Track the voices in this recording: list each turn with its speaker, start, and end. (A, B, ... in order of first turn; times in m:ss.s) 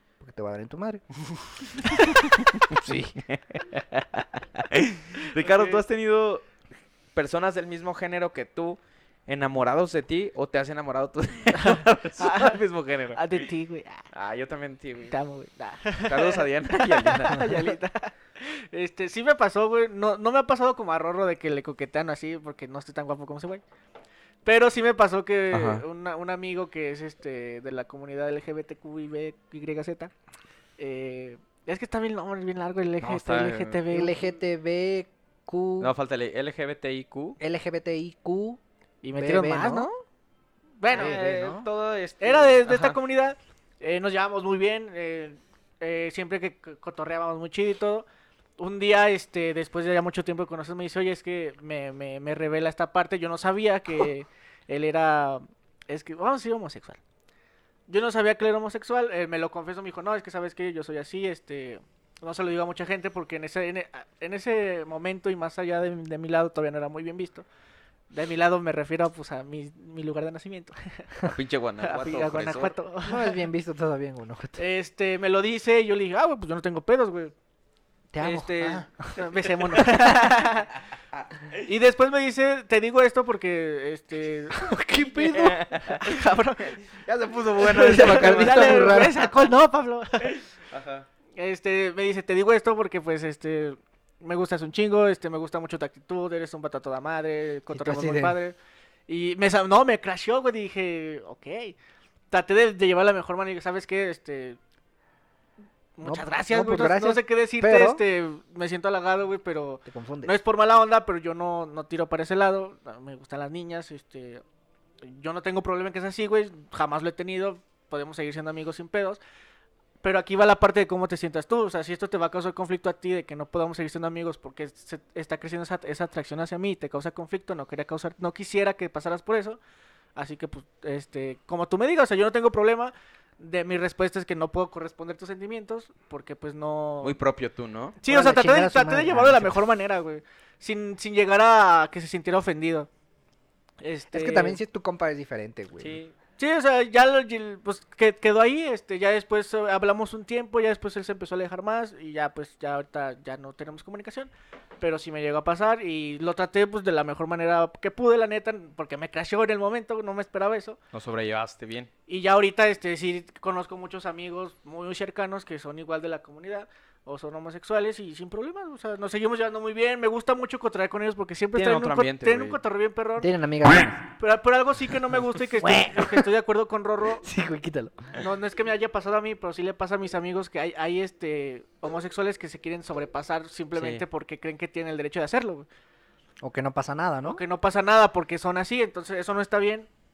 0:00.2-0:01.0 A
0:01.2-0:06.4 B
0:02.7-0:03.2 A
0:05.3-0:05.8 C
0:07.1-0:13.5 B
0:11.5-0:12.6 C
0:13.1-0:14.1 C
0:14.1-0:15.2 B
0:15.1-0:23.6 C
0:16.0-0:17.7 B
0:24.4-0:30.1 C
0:25.5-0:25.8 B
0:30.8-0:34.1 C
0:33.0-0:33.8 B
0:33.9-0:35.9 A
0:35.8-0:37.4 B
0:37.4-0:38.6 A
0:39.0-0:40.0 C
0:39.1-0:39.9 A
0:40.8-0:41.2 C
0:40.9-0:43.0 B
0:40.9-0:41.6 A
0:42.2-0:48.0 C
0:48.6-0:57.0 C
0:57.9-1:07.4 C
1:08.1-1:11.1 C
1:11.2-1:12.8 B
1:11.8-1:13.4 C
1:13.0-1:14.6 A
1:14.6-1:17.3 C
1:18.1-1:19.1 A
1:18.2-1:20.7 C
1:21.2-1:21.6 B
1:21.6-1:26.8 C
1:24.5-1:25.6 A
1:25.3-1:26.2 B
1:26.7-1:29.2 B
1:27.6-1:30.4 C
1:27.8-1:29.1 A
1:30.2-1:31.0 B
1:31.4-1:38.6 C
1:37.7-1:38.4 A
1:39.1-1:41.8 C
1:42.3-1:44.6 C
1:46.0-1:54.4 C
1:46.0-1:48.0 A
1:49.8-1:50.3 A
1:55.0-1:59.2 C
2:00.0-2:09.6 C
2:10.2-2:17.2 C
2:17.0-2:18.0 B
2:18.0-2:22.9 C
2:18.0-2:19.6 A
2:23.8-2:24.6 C
2:24.1-2:26.0 A
2:25.8-2:26.1 B
2:26.4-2:40.8 C
2:40.9-2:41.9 B
2:42.1-2:53.3 C
2:51.5-2:52.6 B
2:53.2-2:54.0 A
2:54.2-2:57.2 C
2:55.6-2:56.3 A
2:57.2-2:58.2 A
2:58.2-3:05.7 C
3:03.7-3:04.0 B
3:06.4-3:07.4 A
3:07.2-3:09.9 C